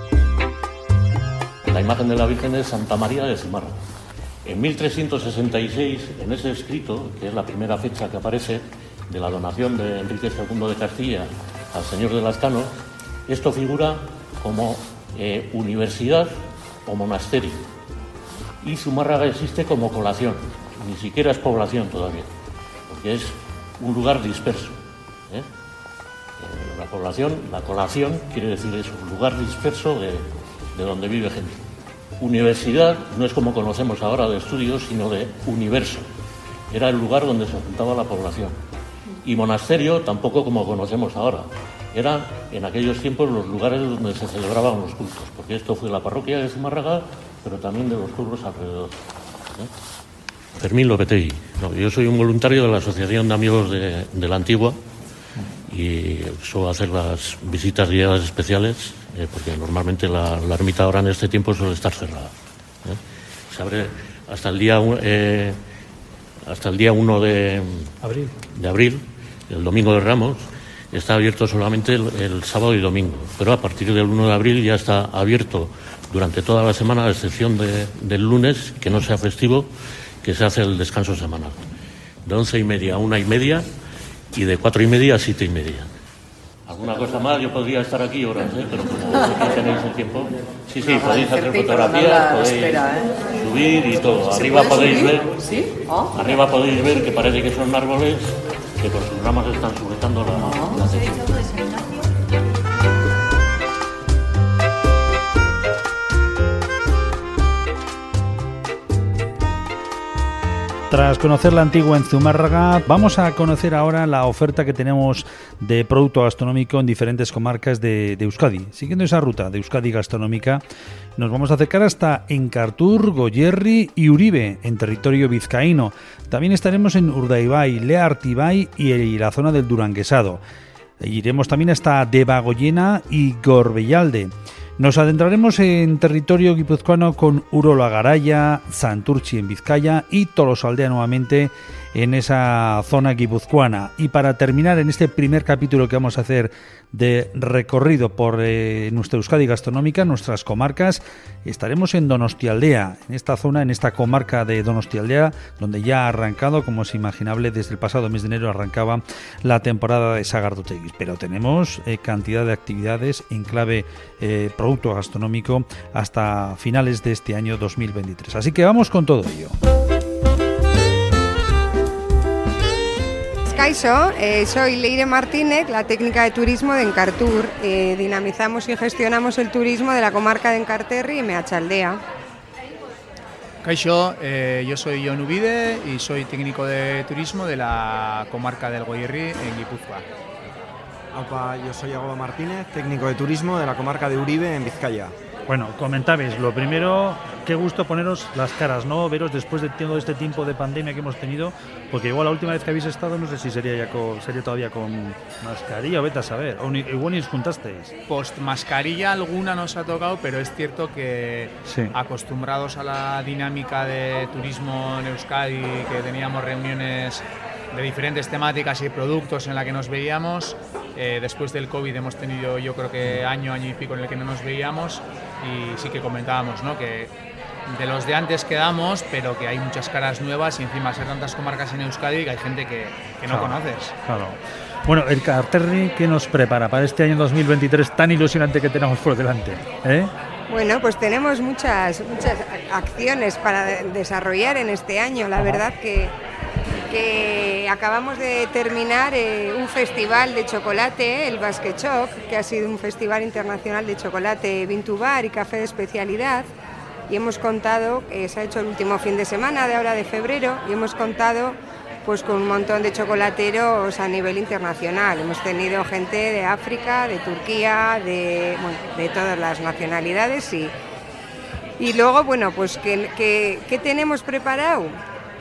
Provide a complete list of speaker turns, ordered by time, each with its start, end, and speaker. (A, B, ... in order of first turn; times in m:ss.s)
0:01.7-0:03.8 A
0:04.4-0:17.7 A
0:18.6-0:22.3 A
0:22.9-0:25.5 A
0:26.4-0:31.6 A
0:32.2-0:36.0 A
0:36.7-0:38.6 A
0:39.2-0:49.7 A
0:50.6-0:54.8 A
0:55.7-1:02.3 A
1:02.8-1:05.6 A
1:06.4-1:07.9 A
1:08.0-1:08.3 B
1:08.5-1:19.7 A
1:20.2-1:21.6 A
1:22.2-1:23.7 A
1:24.3-1:25.9 A
1:26.6-1:35.4 A
1:36.1-1:41.3 A
1:50.9-2:00.6 B
2:01.2-2:10.4 B
2:11.0-2:49.5 B
2:53.5-3:02.0 C
3:03.6-3:10.0 D
3:11.1-3:15.1 E
3:15.5-3:27.9 B
3:28.1-3:47.1 D
3:31.6-3:31.9 B
3:47.7-3:53.9 D
3:53.3-4:00.1 B
4:00.5-4:06.1 C
4:06.9-4:16.5 C
4:17.1-4:30.7 C
4:31.8-4:35.0 C